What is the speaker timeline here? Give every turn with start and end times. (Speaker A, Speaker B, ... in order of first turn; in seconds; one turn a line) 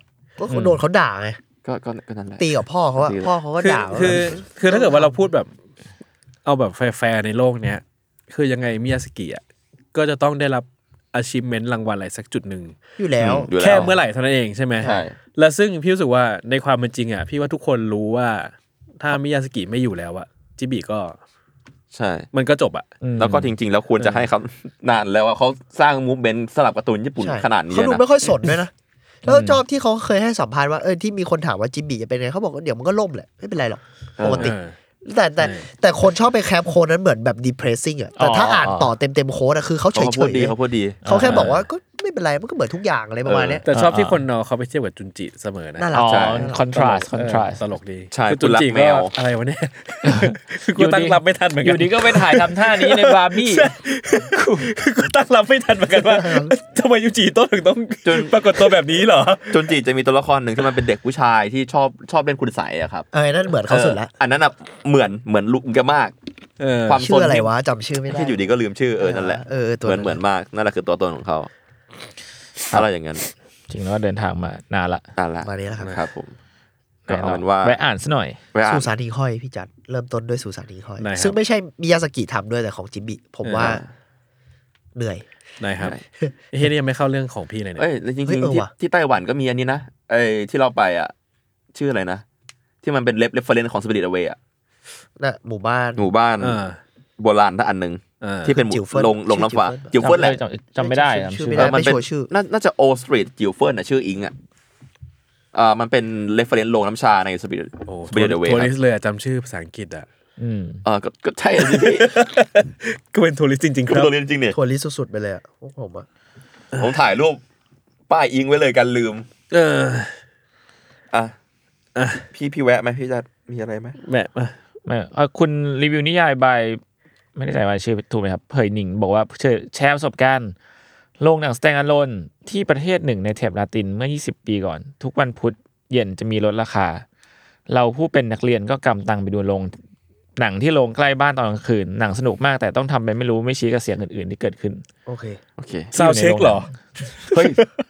Speaker A: 0.4-1.4
Speaker B: 1.6-3.3
Speaker A: 2.4-5.2
Speaker C: 3.6-5.5
Speaker B: 4.0-4.3
Speaker C: 6.4-9.4
Speaker C: 9.9-12.7
Speaker A: 13.0-13.5
Speaker B: 13.2-13.9
Speaker C: 13.6-21.2
Speaker B: 14.8-15.1
Speaker B: 21.9-22.3
Speaker C: 22.3-22.9
Speaker D: 23.0-23.5
Speaker B: 23.2-28.0
Speaker C: 24.0-24.3
Speaker A: 27.2-28.7
Speaker A: 29.2-43.6
Speaker D: 29.3-29.6
Speaker B: 34.2-34.5
Speaker C: 34.3-34.7
Speaker C: 35.4-35.7
Speaker D: 38.2-38.9
Speaker B: 39.9-41.0
Speaker D: 41.0-41.6
Speaker C: 41.3-41.5
Speaker B: 43.2-43.6
Speaker C: 43.6-45.9
Speaker D: 43.7-44.2
Speaker A: 45.8-46.6
Speaker D: 45.9-47.6
Speaker B: 46.0-46.5
Speaker C: 46.5-59.7
Speaker B: 48.1-49.1
Speaker D: 50.0-53.7
Speaker D: 54.3-54.7
Speaker A: 56.0-56.5
Speaker B: 58.0-58.7
Speaker B: 59.5-63.1
Speaker A: 63.1-64.1
Speaker B: 63.7-66.1
Speaker C: 66.6-67.0
Speaker B: 66.9-67.5
Speaker A: 67.0-68.4
Speaker B: 68.1-71.5
Speaker A: 69.0-70.2
Speaker B: 72.7-73.2
Speaker D: 73.7-75.0
Speaker B: 75.2-76.3
Speaker A: 75.4-75.9
Speaker D: 77.1-78.4
Speaker B: 77.1-77.8
Speaker B: 78.5-78.9
Speaker A: 78.6-83.8
Speaker C: 81.0-81.4
Speaker C: 83.4-83.8
Speaker B: 83.5-83.9
Speaker A: 84.9-85.2
Speaker C: 85.6-86.0
Speaker C: 86.5-87.9
Speaker B: 87.8-91.1
Speaker A: 88.2-88.7
Speaker B: 91.7-92.2
Speaker B: 92.8-94.4
Speaker A: 95.2-96.1
Speaker B: 96.0-96.6
Speaker C: 96.4-96.8
Speaker B: 97.2-100.4
Speaker C: 98.2-98.5
Speaker A: 98.5-102.3
Speaker D: 100.0-101.8
Speaker B: 101.5-104.3
Speaker B: 105.5-108.7
Speaker C: 107.8-110.1
Speaker D: 110.4-110.8
Speaker B: 110.8-112.1
Speaker C: 111.6-114.1
Speaker B: 113.9-114.6
Speaker A: 114.5-116.0
Speaker B: 116.8-117.4
Speaker B: 118.1-119.3
Speaker C: 119.5-120.1
Speaker C: 122.0-122.2
Speaker B: 122.3-124.0
Speaker C: 124.0-124.5
Speaker D: 124.8-126.8
Speaker D: 127.3-130.5
Speaker D: 131.2-137.0
Speaker D: 137.7-139.8
Speaker D: 140.4-144.8
Speaker A: 145.1-145.4
Speaker B: 145.6-145.9
Speaker C: 145.9-146.7
Speaker D: 145.9-146.7
Speaker C: 147.2-147.7
Speaker B: 147.3-147.6